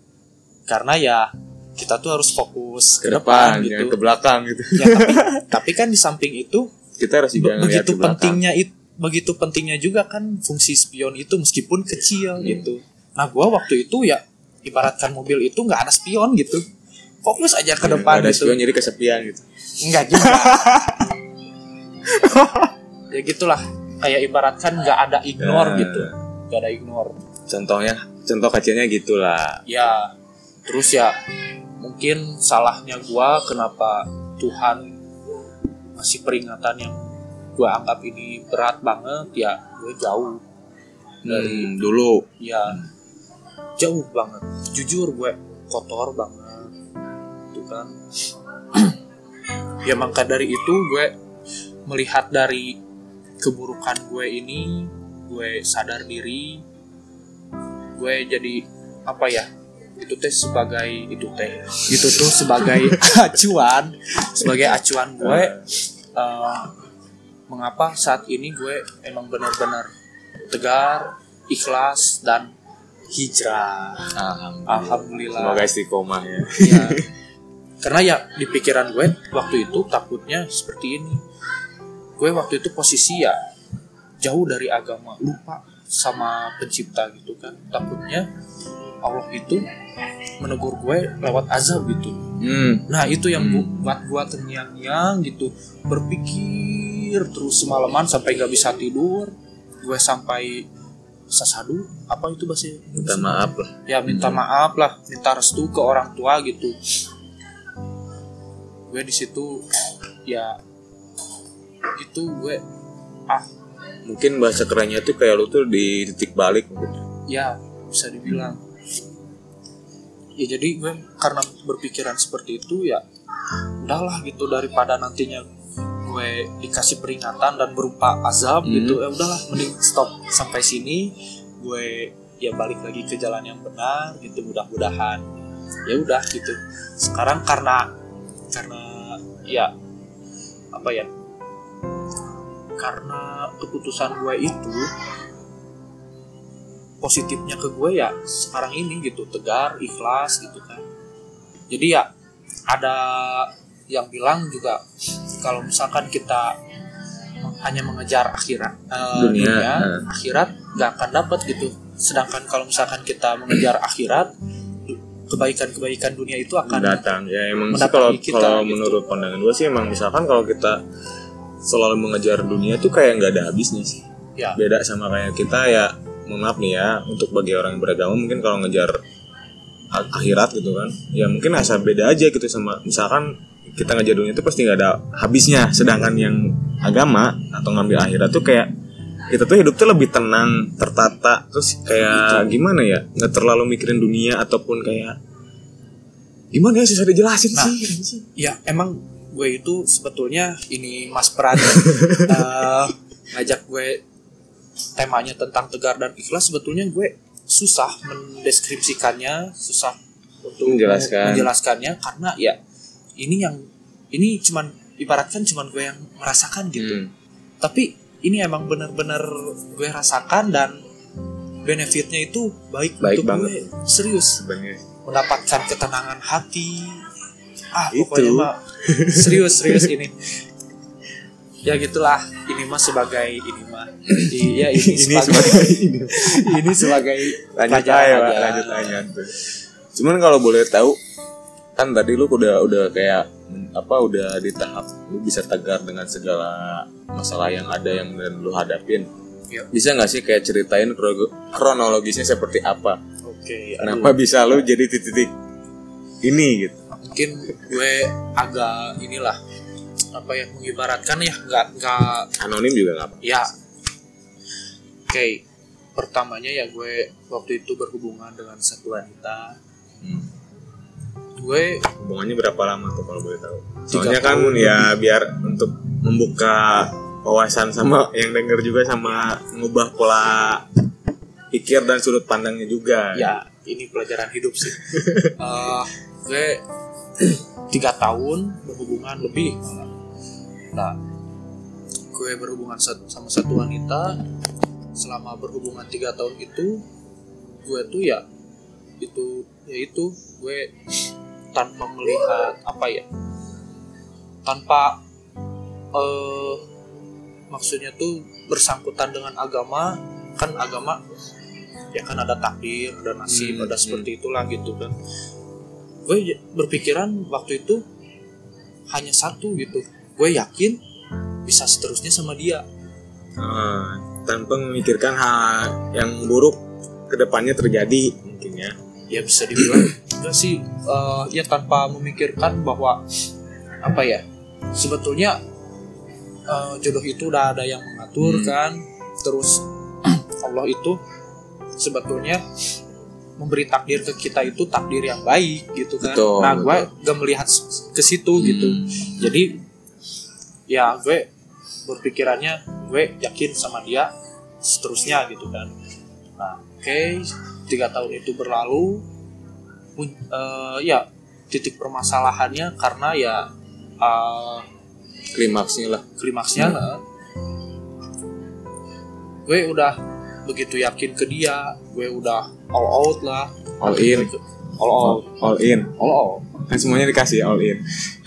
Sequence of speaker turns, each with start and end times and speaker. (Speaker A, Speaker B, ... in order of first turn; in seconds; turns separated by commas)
Speaker A: 0.7-4.0, Speaker B: 3.0-5.4, Speaker A: 4.7-6.7, Speaker B: 7.0-8.4, Speaker A: 7.4-16.6, Speaker B: 12.4-12.7, Speaker A: 17.2-18.6, Speaker B: 17.8-19.4, Speaker A: 19.8-20.9, Speaker B: 20.1-21.0, Speaker B: 22.1-22.7, Speaker A: 23.1-27.1, Speaker B: 25.4-26.1, Speaker B: 27.5-29.6, Speaker A: 29.6-30.1, Speaker A: 30.6-31.2, Speaker A: 31.8-34.9, Speaker A: 36.0-37.0, Speaker A: 37.5-40.4, Speaker B: 41.2-42.9, Speaker A: 41.3-41.7, Speaker A: 42.4-42.8, Speaker A: 43.8-46.7, Speaker A: 47.5-47.9, Speaker A: 49.8-51.1, Speaker A: 51.9-52.8, Speaker A: 53.4-56.6, Speaker A: 58.0-65.5, Speaker B: 61.9-62.2, Speaker B: 65.2-65.7, Speaker A: 66.1-66.7, Speaker A: 67.5-69.9, Speaker A: 70.5-72.5, Speaker A: 73.1-74.1, Speaker B: 74.1-77.1, Speaker A: 74.7-75.7, Speaker A: 76.6-77.0, Speaker A: 77.8-81.2, Speaker A: 82.2-83.4, Speaker A: 84.2-88.3, Speaker A: 89.0-89.6, Speaker A: 90.4-92.2, Speaker B: 92.4-93.9, Speaker A: 92.9-100.7, Speaker A: 101.3-106.8, Speaker B: 103.0-104.4, Speaker A: 108.9-109.7, Speaker A: 110.3-110.6, Speaker A: 112.0-112.6, Speaker B: 114.0-117.0, Speaker A: 117.3-118.6, Speaker A: 120.4-123.0, Speaker A: 123.8-125.4, Speaker A: 126.0-135.2, Speaker B: 128.6-129.0, Speaker A: 135.9-137.9, Speaker A: 138.5-139.7, Speaker A: 140.7-141.1, Speaker A: 142.8-144.8, Speaker A: 147.0-150.8, Speaker A: 151.7-152.1, Speaker A: 152.7-154.8, Speaker A: 155.4-156.6, Speaker A: 157.4-164.3, Speaker B: 159.1-160.1, Speaker A: 164.9-167.0, Speaker B: 166.7-170.8, Speaker A: 167.7-169.0, Speaker B: 171.6-174.0, Speaker B: 174.5-179.0, Speaker B: 179.9-188.7, Speaker B: 189.3-195.2, Speaker B: 196.5-198.3, Speaker A: 198.3-204.0, Speaker A: 204.9-212.6, Speaker B: 210.6-211.5, Speaker A: 213.2-217.0, Speaker B: 216.7-217.1, Speaker A: 217.6-220.8, Speaker A: 221.6-224.4, Speaker B: 223.0-223.7, Speaker B: 224.2-224.8, Speaker A: 225.0-227.1, Speaker A: 227.7-230.4, Speaker B: 227.9-229.9, Speaker A: 231.6-239.0, Speaker B: 234.1-239.3, Speaker B: 239.9-241.0, Speaker B: 241.8-249.1, Speaker B: 249.7-253.0, Speaker A: 253.2-254.2, Speaker B: 253.8-255.3, Speaker B: 256.2-256.8, Speaker A: 256.9-259.4, Speaker A: 260.1-262.3, Speaker B: 262.4-263.4, Speaker A: 263.2-263.5, Speaker A: 265.1-265.4, Speaker A: 265.9-269.6, Speaker B: 270.0-270.3, Speaker A: 271.4-271.9, Speaker B: 272.0-280.6, Speaker A: 273.9-274.9, Speaker B: 281.5-283.3, Speaker A: 283.1-286.6, Speaker B: 284.9-285.3, Speaker A: 287.7-289.9, Speaker A: 292.1-294.2, Speaker A: 294.9-296.8, Speaker A: 297.6-298.2, Speaker A: 299.0-300.7, Speaker A: 301.5-303.1, Speaker A: 304.4-305.0, Speaker A: 305.9-306.6, Speaker A: 307.5-311.0, Speaker A: 311.9-314.9, Speaker B: 313.3-314.1, Speaker A: 316.1-317.8, Speaker A: 318.9-320.8, Speaker A: 321.4-322.6, Speaker B: 323.4-328.8, Speaker A: 329.1-333.0, Speaker B: 329.6-329.9, Speaker A: 333.8-334.2, Speaker A: 334.8-335.4, Speaker A: 336.5-341.0, Speaker B: 338.2-338.5, Speaker A: 341.8-342.4, Speaker A: 343.4-349.6, Speaker B: 346.0-346.9, Speaker B: 348.3-349.1, Speaker A: 350.7-351.3, Speaker A: 351.9-354.1, Speaker A: 354.6-355.7, Speaker A: 356.4-359.0, Speaker A: 360.0-363.5, Speaker A: 364.0-364.6, Speaker B: 365.3-366.0, Speaker A: 366.2-367.0, Speaker A: 369.4-376.6, Speaker B: 373.8-374.3, Speaker B: 375.0-376.0, Speaker B: 376.7-378.1